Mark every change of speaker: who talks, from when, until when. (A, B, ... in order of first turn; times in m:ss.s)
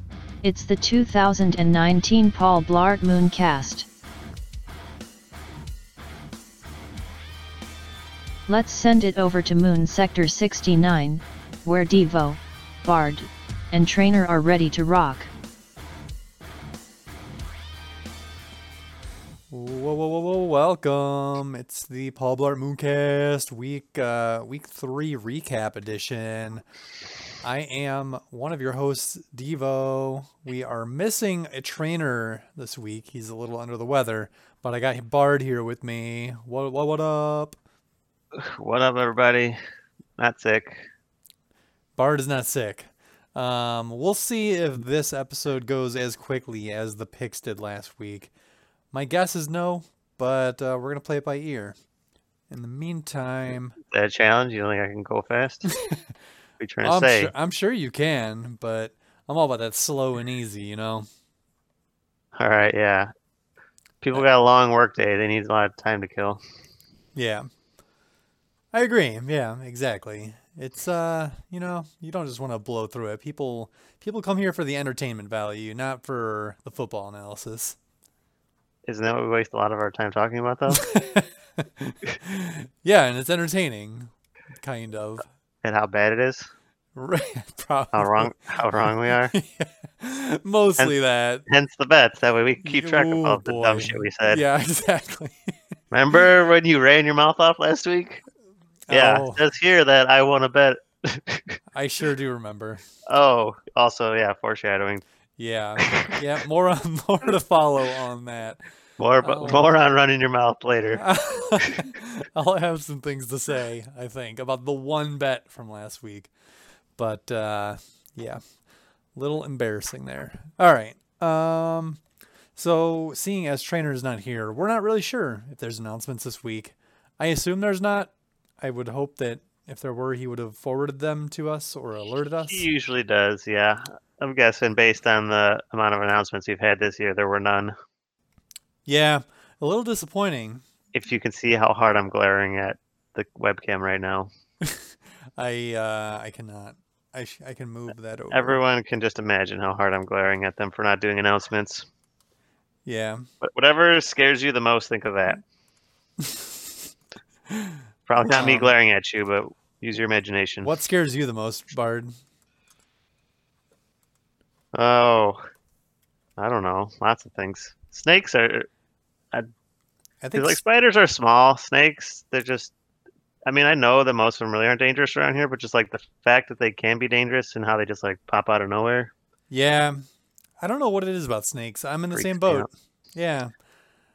0:00.4-0:03.9 A
0:08.5-0:15.3 A
0:19.5-0:26.6 B
0:27.4-0:37.6 B
0:38.3-0:39.6 C
0:40.2-0:40.9 C
0:42.0-0:48.3 B
0:48.9-0:51.7 B
0:52.5-0:53.8 B
0:53.8-0:55.7 C
0:55.6-0:56.0 B
0:56.6-0:57.3 C
0:56.8-1:01.1 B
1:02.4-1:03.1 C
1:04.0-1:06.4 C
1:07.1-1:07.5 B
1:08.7-1:17.8 B
1:18.8-1:20.8 C
1:20.7-1:25.3 B
1:25.6-1:26.5 C
1:26.9-1:28.4 B
1:27.9-1:29.3 C
1:29.1-1:31.4 B
1:31.5-1:34.4 C
1:32.6-1:35.5 B
1:35.9-1:38.2 C
1:38.9-1:39.4 B
1:38.9-1:41.6 C
1:41.7-1:42.8 B
1:43.0-1:45.0 C
1:45.4-1:48.6 B
1:45.8-1:46.1 C
1:49.0-1:51.0 C
1:49.2-1:49.7 B
1:50.9-1:56.3 B
1:57.0-1:58.4 B
1:59.1-2:02.0 B
2:02.6-2:12.7 B
2:12.4-2:17.7 C
2:18.8-2:20.6 B
2:20.9-2:24.3 C
2:24.6-2:28.6 B
2:28.3-2:31.9 C
2:32.8-2:33.3 B
2:33.4-2:35.4 C
2:36.2-2:36.7 B
2:37.5-2:38.7 B
2:38.1-2:40.7 C
2:40.6-2:42.1 B
2:44.7-2:45.4 C
2:46.4-2:48.7 C
2:50.2-2:50.6 B
2:50.3-2:52.7 C
2:53.4-2:59.1 C
2:59.5-3:00.0 B
3:00.6-3:03.5 B
3:02.1-3:02.7 C